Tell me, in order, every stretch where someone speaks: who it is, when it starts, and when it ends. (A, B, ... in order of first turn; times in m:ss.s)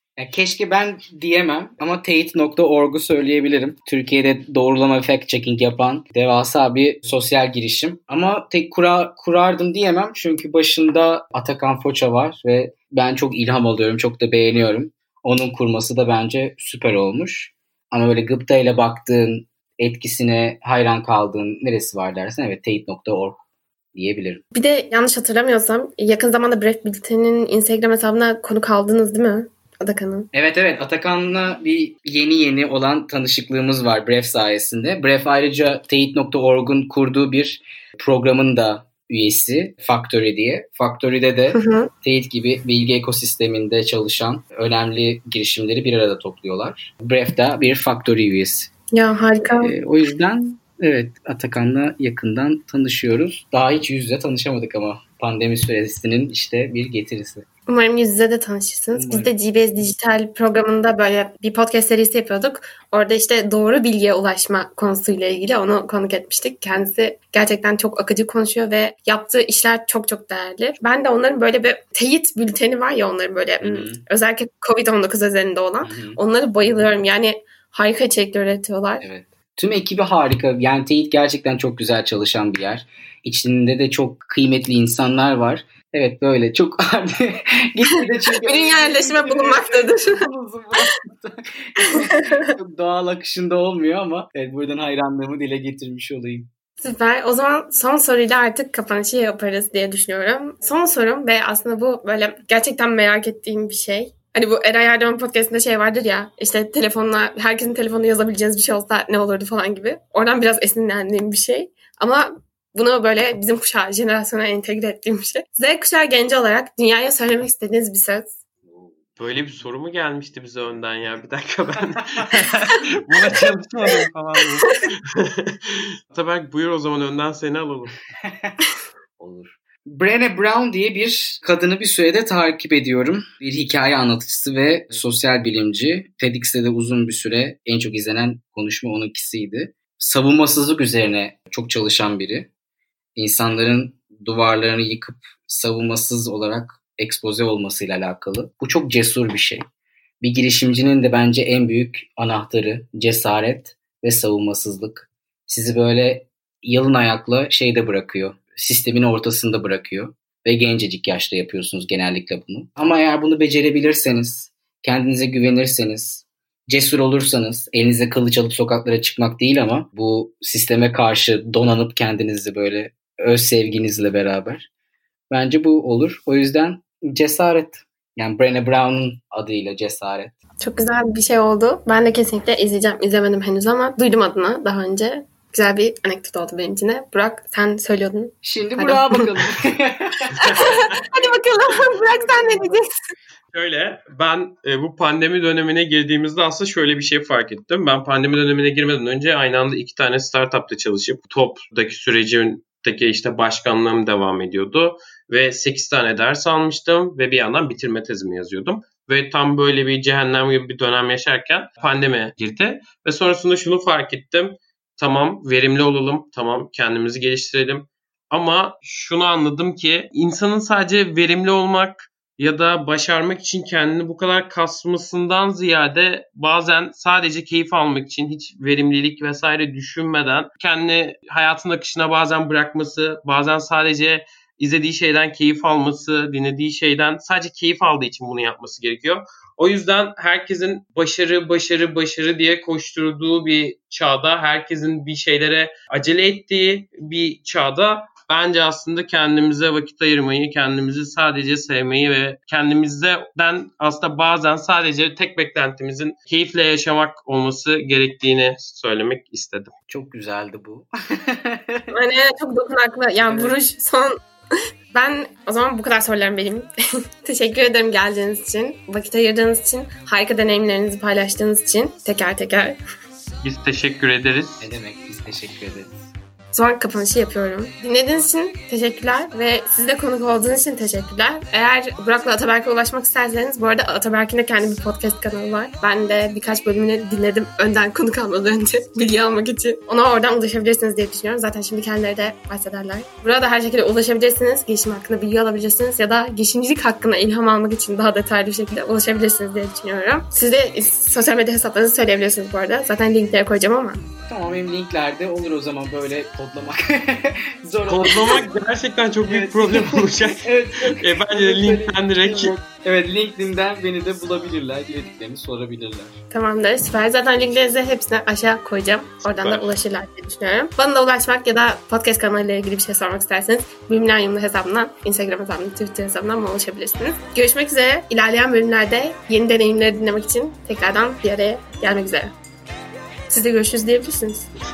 0:00.2-0:24.4 A
0:24.5-0:30.3 B
0:30.3-0:48.7 A
0:41.5-0:41.9 B
0:48.9-0:49.7 B
0:49.6-0:57.5 A
0:57.7-1:19.0 B
0:58.9-0:59.3 A
1:13.6-1:14.0 A
1:15.8-1:16.9 A
1:19.0-1:36.5 A
1:28.4-1:30.3 B
1:31.8-1:32.5 B
1:36.8-1:58.4 B
1:59.2-2:08.0 C
2:04.1-2:04.6 A
2:08.2-2:08.6 A
2:09.2-2:22.5 A
2:23.2-2:29.6 A
2:30.2-2:54.7 A
2:55.3-3:00.4 A
3:00.6-3:09.3 B
3:08.4-3:12.8 A
3:10.4-3:10.8 C
3:10.4-3:12.9 B
3:13.5-4:19.7 C
4:19.9-4:21.9 A
4:21.9-4:24.2 B
4:23.3-4:23.6 A
4:24.9-4:26.7 B
4:27.2-4:32.8 B
4:33.4-4:34.7 C
4:34.6-4:36.1 A
4:36.5-5:04.0 B
5:04.3-5:08.4 A
5:07.9-5:12.6 C
5:09.2-5:16.2 A
5:16.3-5:32.4 B
5:19.3-5:19.7 C
5:33.3-5:34.5 B